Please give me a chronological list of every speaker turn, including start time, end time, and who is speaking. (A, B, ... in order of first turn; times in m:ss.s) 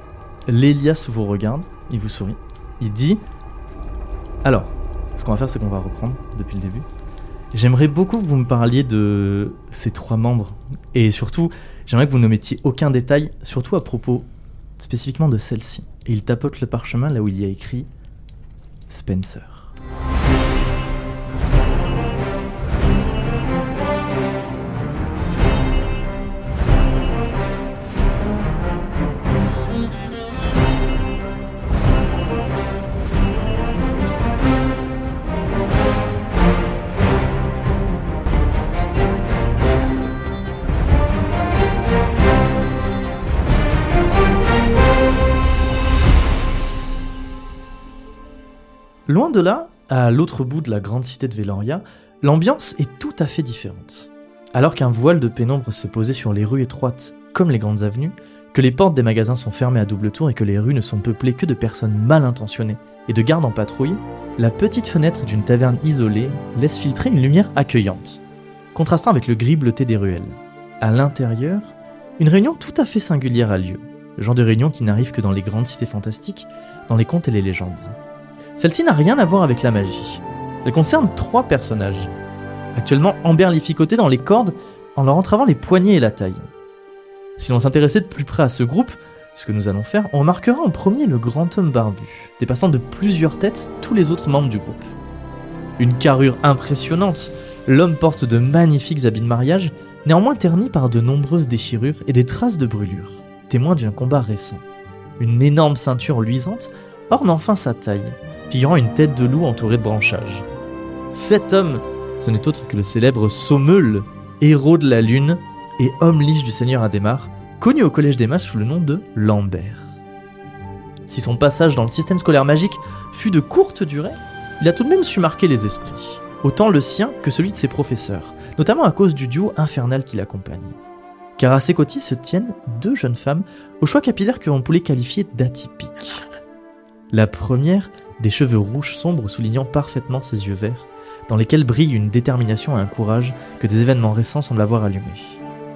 0:00.5-0:03.2 A
0:04.4-0:06.8 A
0:07.5-0:14.3 A
0:14.8-0:17.9 A
0:18.9-0:19.7 A
0:49.1-1:08.2 A
1:08.7-1:17.9 A
1:18.6-1:22.1 A
1:22.7-1:26.5 A
1:27.4-1:34.9 A
1:35.8-1:44.6 A
1:45.2-1:50.4 A
1:51.1-1:59.9 A
2:01.1-2:10.8 A
2:11.4-2:16.2 A
2:17.1-2:25.4 A